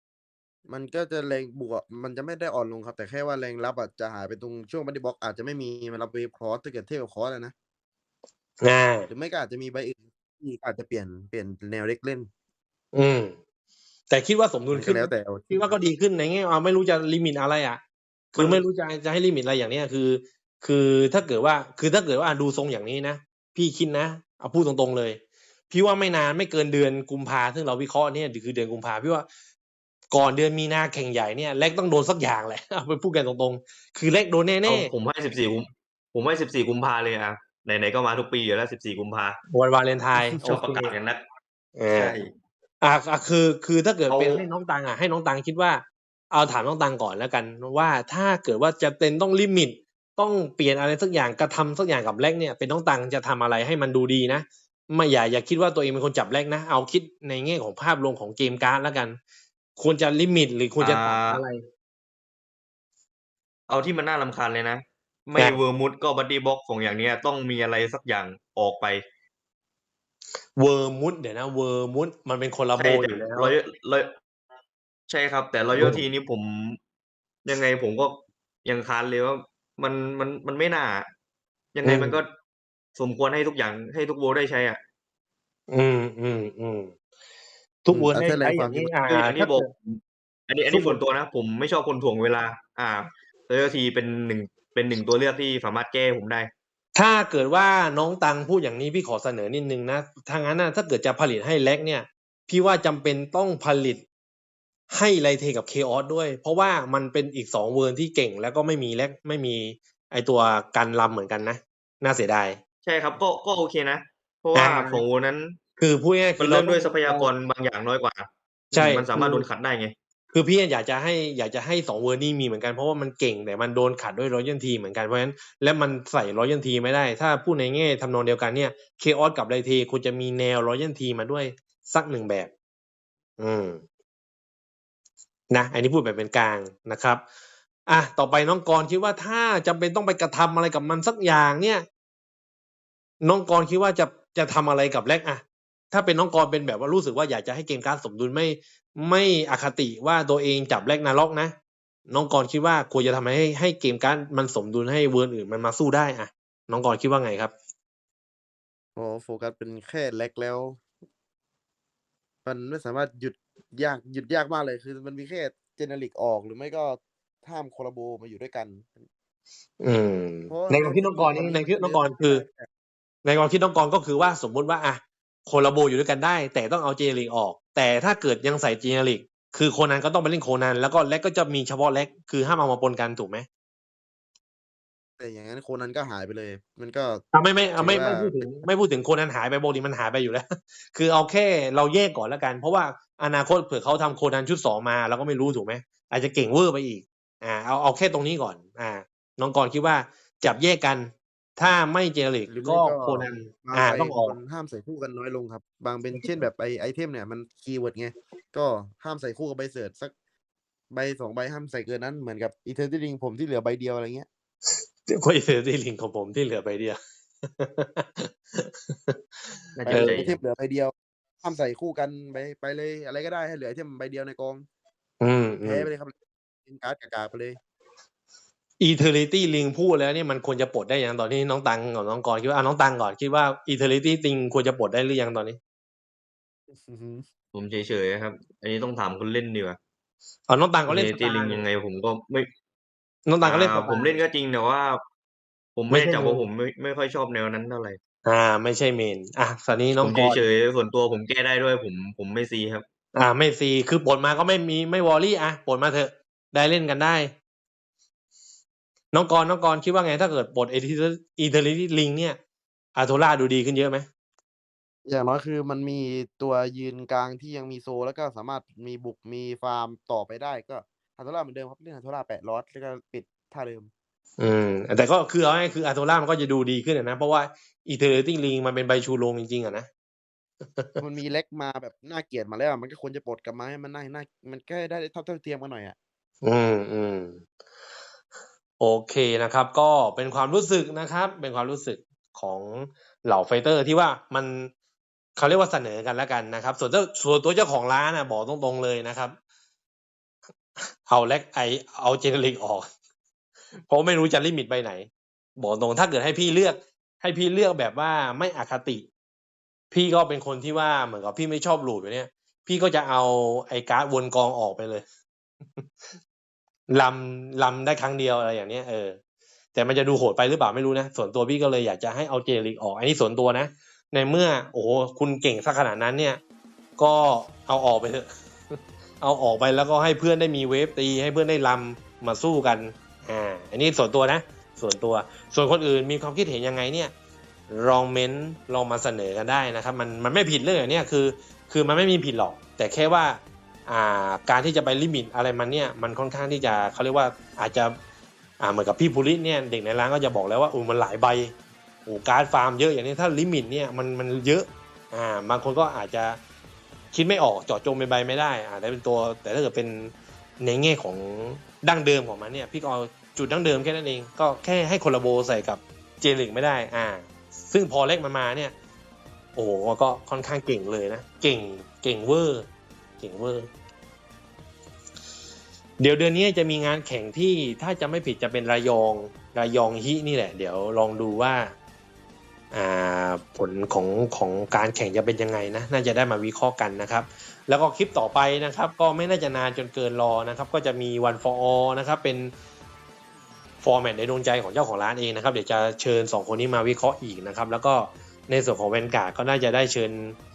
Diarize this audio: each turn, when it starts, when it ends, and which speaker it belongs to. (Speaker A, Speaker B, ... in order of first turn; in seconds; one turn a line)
Speaker A: 0.7-7.5
Speaker B: 8.6-9.1
Speaker A: 9.1-12.3
Speaker B: 12.9-13.4
Speaker B: 14.1-17.8
Speaker A: 14.7-15.7
Speaker B: 18.3-29.2
Speaker C: 18.4-18.6
Speaker B: 30.1-34.9
Speaker C: 34.6-39.4
Speaker B: 39.5-40.9
Speaker C: 40.4-41.2
Speaker B: 41.8-42.1
Speaker C: 41.9-42.3
Speaker B: 42.8-59.2
Speaker C: 44.1-44.4
Speaker B: 59.8-61.6
Speaker C: 60.8-61.4
Speaker C: 63.7-69.0
Speaker B: 70.6-73.5
Speaker C: 72.8-74.1
Speaker C: 75.1-76.8
Speaker B: 75.7-76.0
Speaker C: 77.4-81.1
Speaker C: 81.7-82.3
Speaker B: 81.8-82.2
Speaker C: 83.0-84.8
Speaker B: 85.7-87.0
Speaker B: 87.8-89.7
Speaker A: 87.9-88.9
Speaker C: 89.1-96.5
Speaker B: 90.7-91.0
Speaker B: 96.9-104.0
Speaker B: 104.9-112.6
Speaker C: 112.8-115.6
Speaker B: 114.5-115.0
Speaker B: 115.8-117.3
Speaker C: 116.4-119.9
Speaker B: 118.7-119.5
Speaker B: 120.3-132.5
Speaker B: 133.4-133.8
Speaker B: 135.5-137.2
Speaker B: 137.9-141.8
Speaker B: 143.2-151.5
Speaker B: 152.1-157.5
Speaker A: 158.9-160.8
Speaker A: 162.4-169.1
Speaker B: 169.8-172.4
Speaker A: 170.5-172.7
Speaker B: 173.2-183.4
Speaker A: 185.2-187.2
Speaker B: 187.3-204.4
Speaker A: 187.8-188.4
Speaker A: 202.5-210.1
Speaker A: 210.9-214.3
Speaker B: 215.0-220.2
Speaker C: 219.8-220.4
Speaker A: 219.8-224.7
Speaker B: 225.2-225.9
Speaker A: 225.6-227.6
Speaker B: 228.8-235.6
Speaker A: 236.7-237.3
Speaker C: 237.5-239.8
Speaker B: 240.5-241.6
Speaker C: 240.9-242.5
Speaker B: 243.2-244.2
Speaker C: 243.4-245.0
Speaker C: 245.8-248.0
Speaker B: 245.9-246.4
Speaker B: 248.2-250.4
Speaker C: 250.0-252.8
Speaker B: 253.1-257.3
Speaker B: 259.1-262.4
Speaker B: 262.9-264.1
Speaker A: 265.1-273.9
Speaker B: 274.4-279.9
Speaker A: 281.0-285.9
Speaker B: 286.4-287.4
Speaker B: 288.8-294.7
Speaker B: 295.4-299.4
Speaker B: 300.8-302.9
Speaker B: 303.9-309.1
Speaker B: 309.9-315.0
Speaker B: 316.9-319.2
Speaker B: 319.7-326.4
Speaker B: 327.0-337.1
Speaker B: 337.7-347.9
Speaker B: 348.6-351.5
Speaker B: 352.1-356.4
Speaker B: 357.1-368.7
Speaker B: 369.6-372.7
Speaker B: 373.2-373.7
Speaker B: 376.0-381.7
Speaker B: 382.7-392.5
Speaker B: 393.8-400.4